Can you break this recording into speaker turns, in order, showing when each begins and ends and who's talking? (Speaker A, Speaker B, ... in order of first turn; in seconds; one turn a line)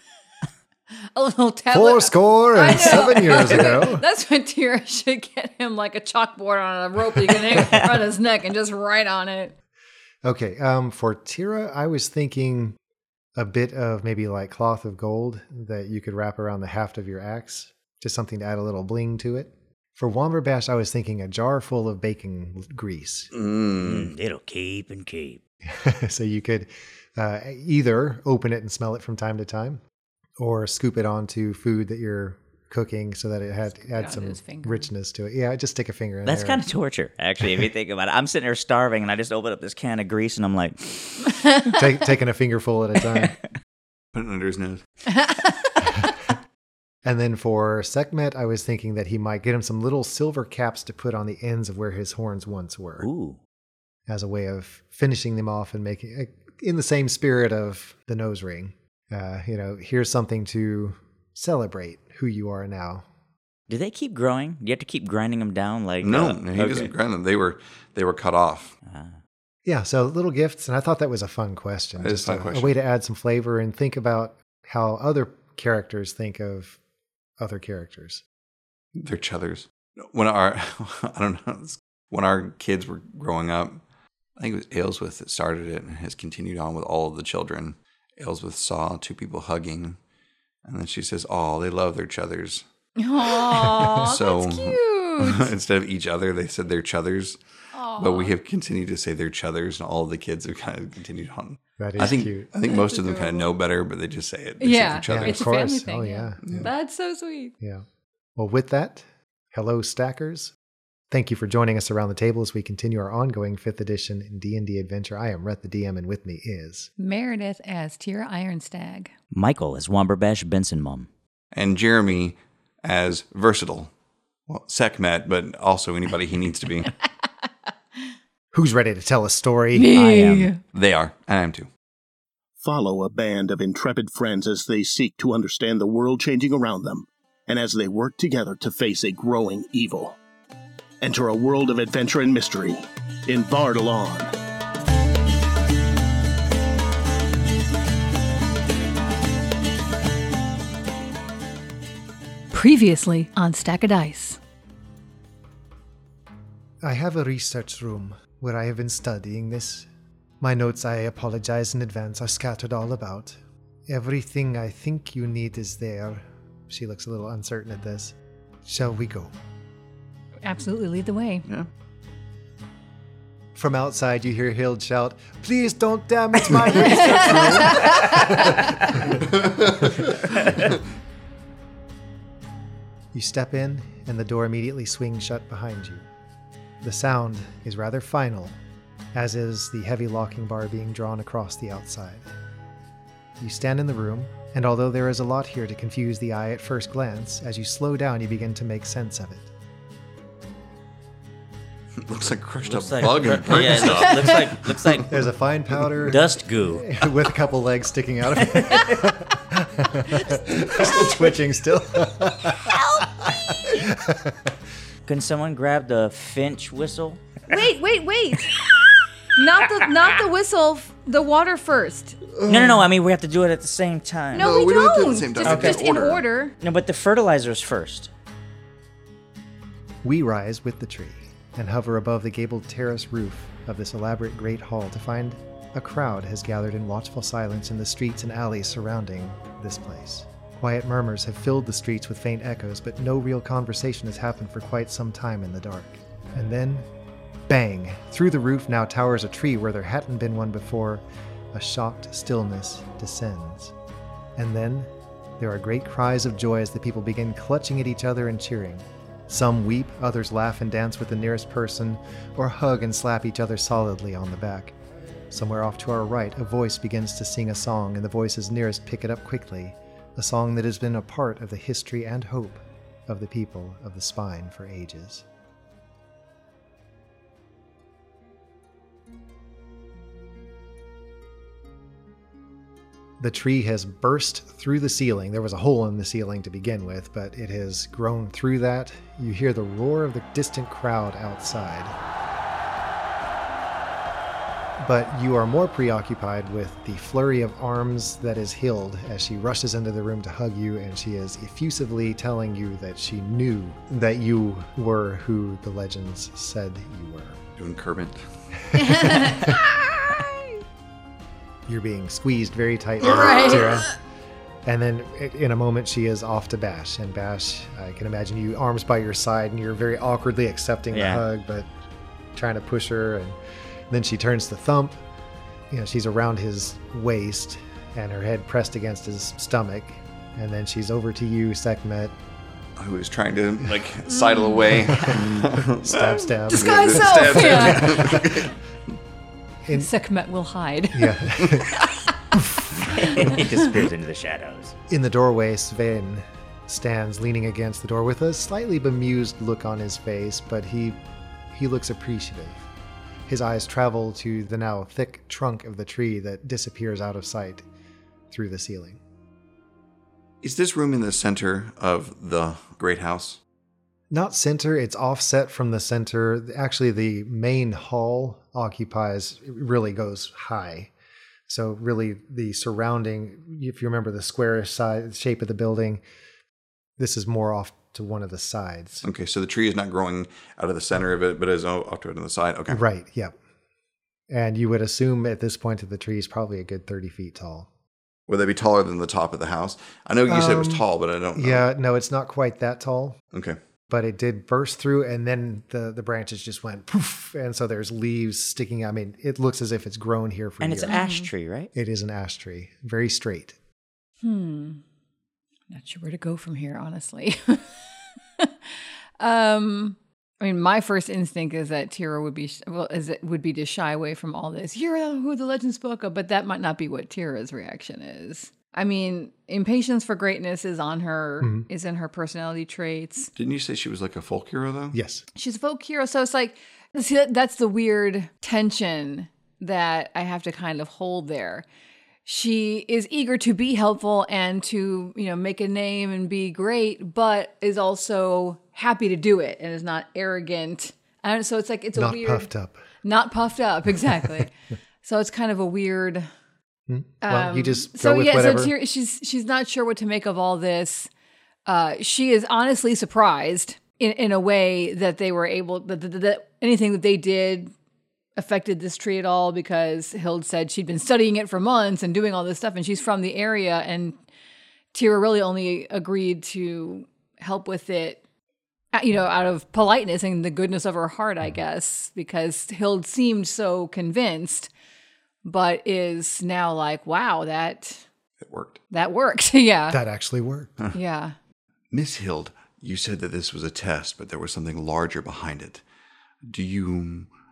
Speaker A: 1.1-9.5
Speaker B: 1.7-4.0
Speaker B: 10.2-12.8
Speaker B: 13.4-23.3
Speaker C: 23.3-24.1
Speaker D: 23.8-25.4
Speaker B: 25.6-29.8
Speaker B: 30.4-36.6
Speaker A: 33.8-34.9
Speaker D: 36.2-41.4
Speaker B: 41.7-43.4
Speaker C: 44.1-44.8
Speaker A: 45.1-46.0
Speaker B: 47.0-53.1
Speaker D: 53.0-53.4
Speaker B: 54.1-63.0
Speaker D: 63.7-66.9
Speaker C: 66.0-68.8
Speaker D: 68.9-69.2
Speaker B: 69.7-76.8
Speaker C: 72.0-72.7
Speaker B: 77.4-78.2
Speaker C: 79.0-83.8
Speaker C: 84.4-90.0
Speaker C: 90.7-92.6
Speaker A: 93.0-95.5
Speaker C: 93.2-97.4
Speaker A: 97.7-98.3
Speaker C: 98.0-105.5
Speaker B: 101.8-102.5
Speaker A: 102.6-103.5
Speaker A: 104.6-107.5
Speaker B: 105.1-106.7
Speaker C: 106.5-106.7
Speaker B: 108.4-110.5
Speaker B: 111.1-116.9
Speaker A: 117.0-119.1
Speaker D: 119.3-121.1
Speaker C: 121.5-123.9
Speaker C: 124.5-126.9
Speaker B: 128.5-129.9
Speaker A: 129.7-130.6
Speaker D: 129.9-130.5
Speaker C: 130.7-131.7
Speaker E: 132.6-140.2
Speaker E: 141.0-144.3
Speaker A: 152.5-154.4
Speaker B: 156.8-159.9
Speaker B: 160.4-169.3
Speaker A: 170.4-171.5
Speaker B: 173.6-179.3
Speaker A: 176.8-178.9
Speaker C: 179.3-180.1
Speaker B: 179.8-180.2
Speaker B: 183.1-186.0
Speaker B: 186.8-188.6
Speaker B: 189.1-192.3
Speaker B: 193.4-199.5
Speaker C: 202.0-205.1
Speaker D: 202.6-205.1
Speaker B: 205.1-214.5
Speaker D: 206.0-206.9
Speaker D: 208.5-209.0
Speaker C: 210.7-211.0
Speaker D: 215.1-217.2
Speaker A: 217.5-218.7
Speaker A: 219.3-222.2
Speaker C: 222.3-222.9
Speaker D: 222.5-224.5
Speaker C: 224.3-226.3
Speaker A: 224.3-226.6
Speaker D: 225.4-225.8
Speaker D: 226.6-228.1
Speaker B: 230.0-246.9
Speaker B: 247.5-253.7
Speaker B: 254.4-264.8
Speaker B: 265.3-275.2
Speaker B: 283.2-292.0
Speaker B: 294.8-307.4
Speaker C: 307.6-308.2
Speaker B: 308.7-309.6
Speaker A: 308.7-310.6
Speaker B: 311.7-313.9
Speaker A: 313.0-313.9
Speaker B: 314.6-321.7
Speaker D: 320.9-321.2
Speaker B: 322.3-323.4
Speaker B: 323.9-325.0
Speaker B: 325.7-332.1
Speaker C: 332.8-338.6
Speaker A: 334.1-334.7
Speaker B: 334.8-338.5
Speaker A: 336.5-338.3
Speaker A: 339.7-341.6
Speaker B: 340.9-341.8
Speaker B: 342.3-342.7
Speaker D: 342.9-344.7
Speaker B: 344.9-351.0
Speaker B: 351.5-352.7
Speaker B: 353.3-357.6
Speaker B: 358.3-359.0
Speaker C: 360.4-363.4
Speaker B: 364.1-370.9
Speaker B: 371.5-376.0
Speaker B: 377.0-379.1
Speaker C: 379.0-382.8
Speaker B: 382.7-383.3
Speaker B: 384.3-387.7
Speaker C: 388.3-391.6
Speaker B: 390.3-393.2
Speaker C: 393.3-393.6
Speaker B: 393.9-401.0
Speaker D: 400.6-401.7
Speaker A: 400.9-401.3
Speaker B: 401.7-403.6
Speaker A: 404.2-404.8
Speaker A: 405.7-407.7
Speaker A: 408.4-423.3
Speaker B: 421.4-421.7
Speaker C: 423.4-425.0
Speaker B: 424.9-425.2
Speaker A: 425.4-431.6
Speaker A: 432.3-442.5
Speaker B: 441.9-442.8
Speaker A: 443.0-444.5
Speaker A: 445.0-446.3
Speaker B: 446.9-448.7
Speaker A: 447.2-451.1
Speaker A: 451.7-457.7
Speaker A: 458.4-464.2
Speaker A: 464.9-468.2
Speaker A: 468.9-474.7
Speaker A: 475.4-478.0
Speaker C: 478.4-478.8
Speaker A: 478.9-480.0
Speaker B: 479.9-480.7
Speaker A: 480.9-481.4
Speaker C: 481.9-485.8
Speaker C: 486.4-487.3